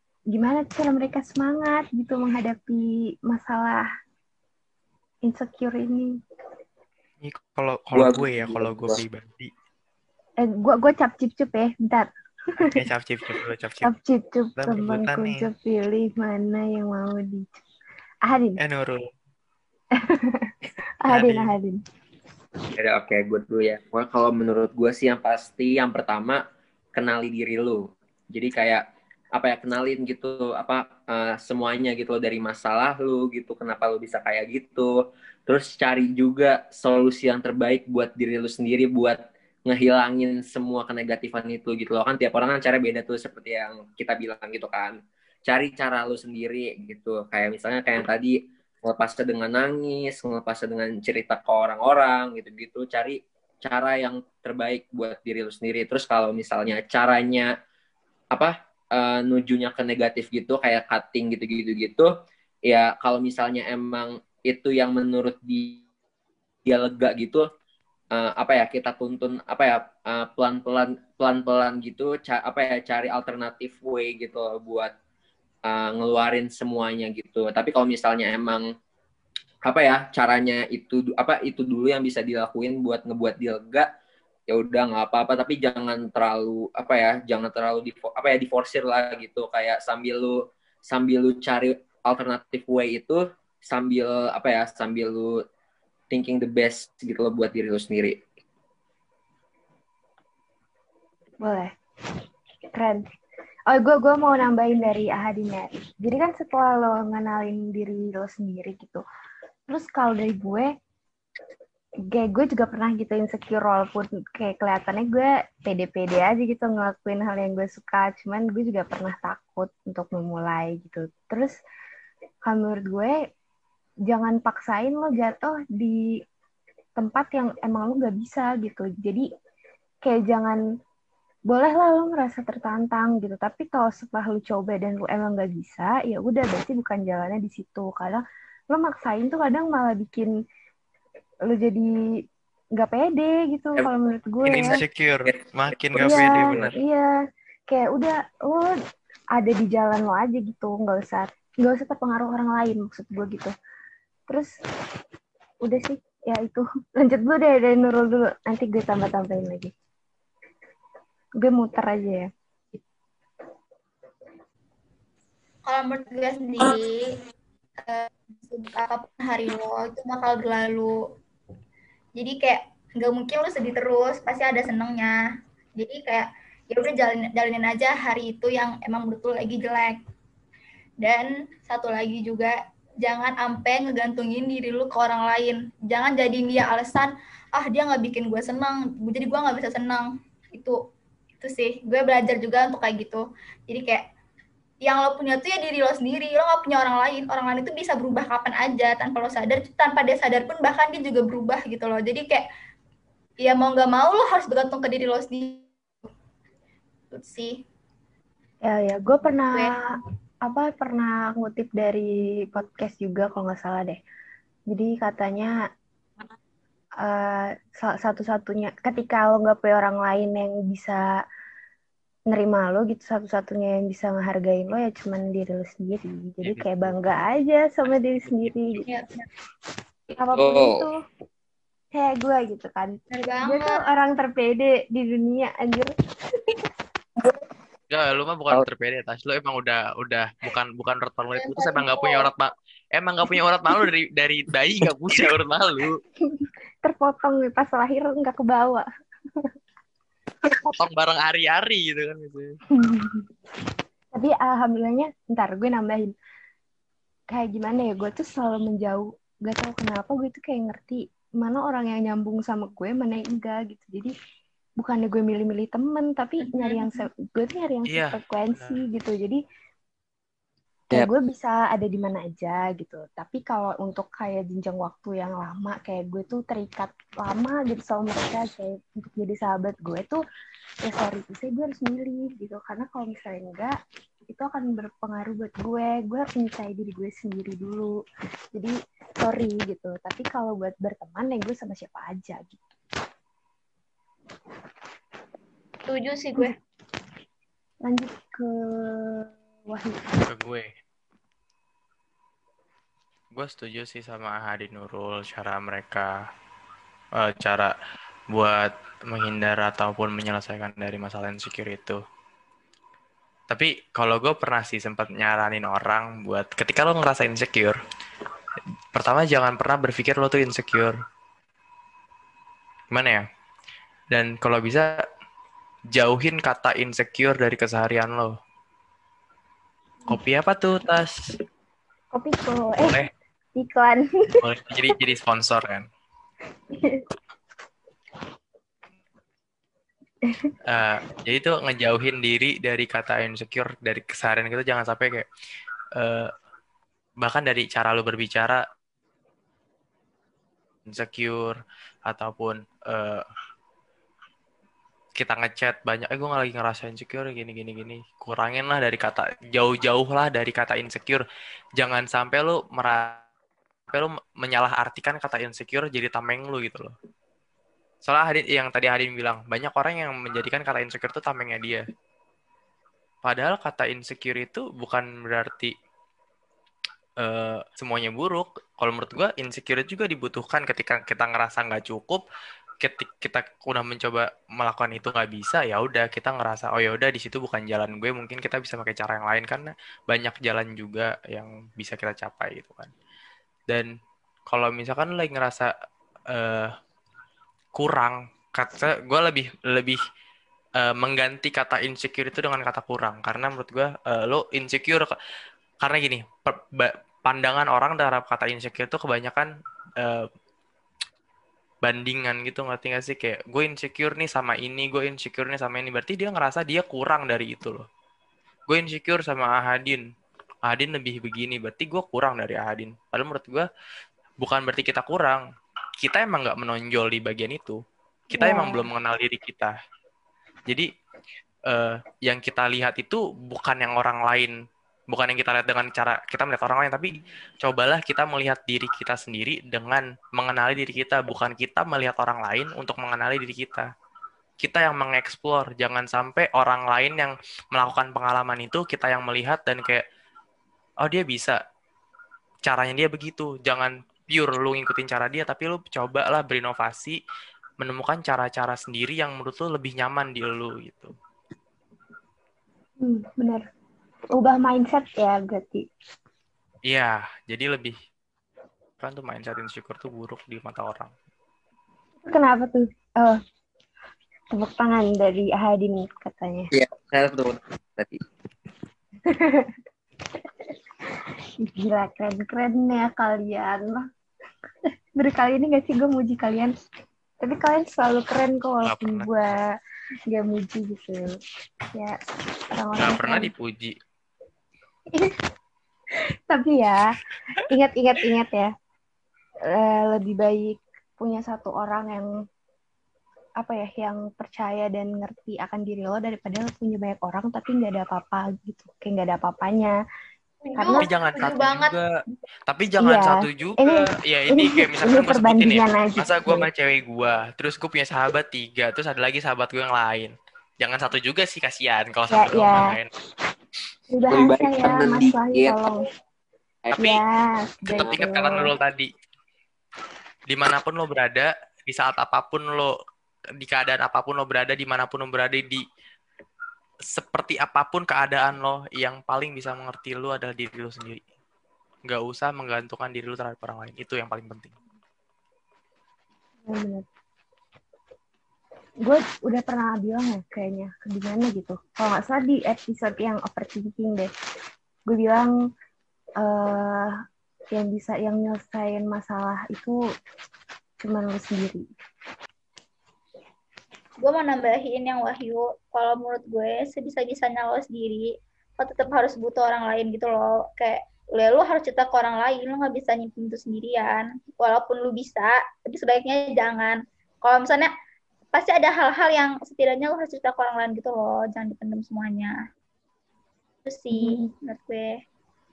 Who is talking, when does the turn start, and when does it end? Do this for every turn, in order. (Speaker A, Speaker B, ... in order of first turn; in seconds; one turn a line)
Speaker A: 0.3-3.9
Speaker A: 5.2-6.1
Speaker B: 7.2-9.5
Speaker C: 7.9-9.0
Speaker A: 10.4-12.9
Speaker B: 12.6-13.9
Speaker A: 13.8-17.6
Speaker B: 14.6-15.5
Speaker A: 18.2-18.6
Speaker B: 18.6-19.0
Speaker A: 19.9-20.5
Speaker A: 21.0-21.8
Speaker B: 21.1-21.5
Speaker C: 22.8-26.4
Speaker C: 26.9-57.5
Speaker C: 58.3-62.1
Speaker C: 62.7-65.8
Speaker C: 66.7-67.4
Speaker C: 68.1-74.9
Speaker C: 75.7-78.7
Speaker C: 79.7-83.9
Speaker C: 84.5-95.3
Speaker C: 96.1-98.2
Speaker A: 101.4-101.7
Speaker A: 102.7-103.0
Speaker A: 103.7-109.0
Speaker A: 109.7-110.7
Speaker A: 112.1-121.5
Speaker A: 122.5-123.2
Speaker A: 124.1-126.2
Speaker A: 127.0-129.3
Speaker A: 130.0-130.6
Speaker A: 131.5-140.3
Speaker A: 141.5-141.9
Speaker A: 142.8-144.8
Speaker C: 144.4-146.7
Speaker B: 144.4-146.8
Speaker A: 146.0-147.1
Speaker A: 147.7-148.7
Speaker A: 149.4-153.5
Speaker A: 154.3-154.5
Speaker A: 155.6-159.7
Speaker A: 161.4-162.3
Speaker D: 165.7-167.1
Speaker D: 167.8-171.0
Speaker D: 172.2-175.2
Speaker D: 175.8-180.0
Speaker D: 181.0-190.8
Speaker D: 191.4-194.1
Speaker D: 194.8-202.5
Speaker D: 203.4-205.7
Speaker D: 207.1-207.6
Speaker A: 208.6-209.9
Speaker D: 209.5-209.8
Speaker A: 210.4-214.0
Speaker A: 214.7-215.6
Speaker A: 217.0-221.1
Speaker A: 222.3-228.9
Speaker B: 226.4-226.9
Speaker B: 228.3-228.5
Speaker D: 228.8-229.3
Speaker A: 230.1-231.0
Speaker C: 230.3-230.8
Speaker A: 231.9-236.7
Speaker D: 233.1-233.8
Speaker B: 237.9-246.0
Speaker D: 241.3-242.3
Speaker A: 246.3-248.9
Speaker B: 250.5-252.6
Speaker A: 252.7-253.3
Speaker A: 254.1-256.1
Speaker A: 257.3-264.1
Speaker A: 264.8-269.4
Speaker D: 266.4-267.1
Speaker B: 267.9-268.8
Speaker A: 270.9-280.2
Speaker A: 280.8-283.8
Speaker A: 284.3-288.0
Speaker A: 288.5-292.6
Speaker D: 295.9-296.6
Speaker A: 297.9-300.2
Speaker B: 300.3-300.7
Speaker B: 303.3-306.1
Speaker B: 307.2-307.7
Speaker B: 308.3-312.0
Speaker B: 313.5-317.8
Speaker B: 318.9-320.9
Speaker B: 322.9-323.2
Speaker B: 324.1-325.0
Speaker B: 325.9-328.3
Speaker B: 330.1-331.1
Speaker A: 332.1-333.1
Speaker A: 333.6-334.1
Speaker B: 334.4-335.9
Speaker A: 336.7-337.1
Speaker A: 340.2-340.5
Speaker B: 340.7-345.3
Speaker B: 346.0-346.3
Speaker B: 347.2-348.6
Speaker B: 350.9-353.2
Speaker B: 355.2-361.2
Speaker B: 361.8-363.2
Speaker B: 363.9-366.9
Speaker B: 368.0-371.9
Speaker B: 373.2-375.7
Speaker B: 377.2-382.2
Speaker B: 382.8-392.9
Speaker B: 394.5-395.7
Speaker B: 396.3-396.7
Speaker B: 397.8-400.0
Speaker B: 400.8-405.1
Speaker B: 405.8-409.5
Speaker B: 410.0-410.3
Speaker B: 411.8-417.9
Speaker B: 418.7-420.0
Speaker B: 420.6-423.7
Speaker B: 424.4-425.4
Speaker B: 426.0-429.7
Speaker A: 428.4-428.9
Speaker B: 431.7-434.5
Speaker B: 435.1-443.9
Speaker B: 444.6-450.1
Speaker B: 451.0-451.6
Speaker B: 452.6-457.2
Speaker B: 457.8-461.1
Speaker A: 463.0-463.6
Speaker A: 464.3-465.9
Speaker B: 466.9-468.0
Speaker B: 469.0-471.1
Speaker A: 472.3-473.4
Speaker A: 474.5-476.7
Speaker C: 476.7-478.2
Speaker A: 479.3-479.8
Speaker A: 481.1-484.1
Speaker A: 485.2-486.7
Speaker A: 487.4-489.7
Speaker B: 488.8-489.3
Speaker A: 490.3-491.4
Speaker A: 492.7-493.5
Speaker B: 493.0-494.0
Speaker A: 496.5-497.1
Speaker A: 497.7-498.7
Speaker A: 499.7-502.3
Speaker A: 503.6-509.9
Speaker D: 510.6-512.0
Speaker A: 510.8-511.1
Speaker B: 510.9-523.1
Speaker A: 513.0-516.7
Speaker A: 522.3-522.9
Speaker A: 524.1-526.0
Speaker C: 524.3-525.8
Speaker A: 527.0-528.7
Speaker B: 527.9-529.1
Speaker B: 530.5-532.9
Speaker B: 533.6-535.8
Speaker B: 537.1-541.2
Speaker B: 542.1-544.7
Speaker A: 546.6-547.1
Speaker A: 549.0-554.3
Speaker A: 555.1-555.5
Speaker A: 556.4-557.2
Speaker A: 557.7-560.0
Speaker A: 561.0-561.8
Speaker D: 564.2-577.9
Speaker D: 578.5-582.5
Speaker D: 583.9-585.1
Speaker A: 584.1-584.5